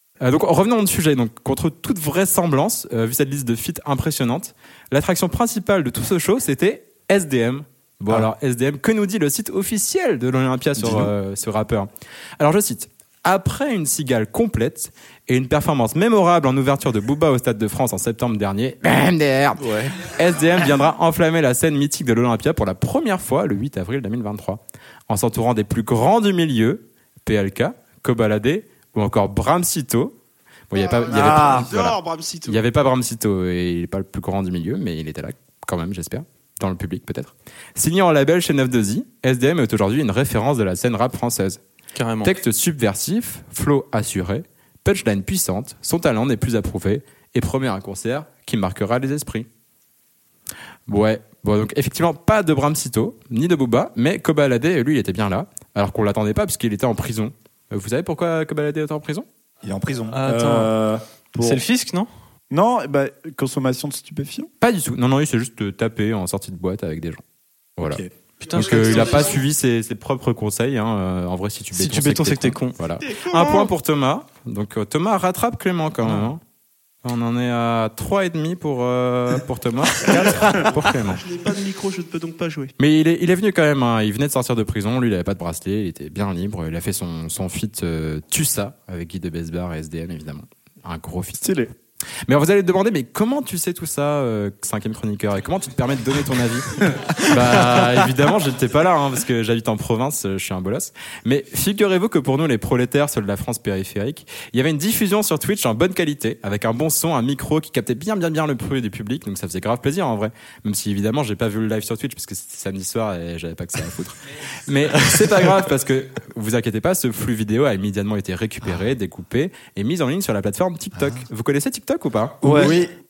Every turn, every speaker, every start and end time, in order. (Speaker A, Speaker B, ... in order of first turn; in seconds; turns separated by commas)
Speaker A: 0.2-30.1, Speaker B: 10.7-11.1, Speaker B: 19.6-20.0, Speaker A: 30.7-41.6, Speaker C: 30.7-32.6, Speaker D: 31.1-31.7, Speaker E: 41.9-42.3, Speaker A: 42.2-49.5, Speaker A: 50.9-59.3, Speaker B: 59.6-60.2, Speaker E: 60.1-60.7, Speaker D: 60.2-61.6, Speaker E: 61.4-62.1, Speaker D: 62.5-64.5, Speaker A: 64.6-67.2, Speaker A: 67.8-76.4, Speaker D: 67.8-69.0, Speaker E: 68.4-69.3, Speaker C: 68.5-69.4, Speaker E: 71.7-72.8, Speaker C: 73.0-73.7, Speaker A: 77.0-81.2, Speaker D: 80.0-80.7, Speaker C: 80.5-82.7, Speaker A: 82.8-91.4, Speaker D: 91.4-91.7, Speaker A: 92.3-122.5, Speaker E: 115.0-115.6, Speaker B: 118.6-118.9, Speaker B: 120.9-121.2, Speaker B: 122.4-122.9, Speaker E: 122.4-122.8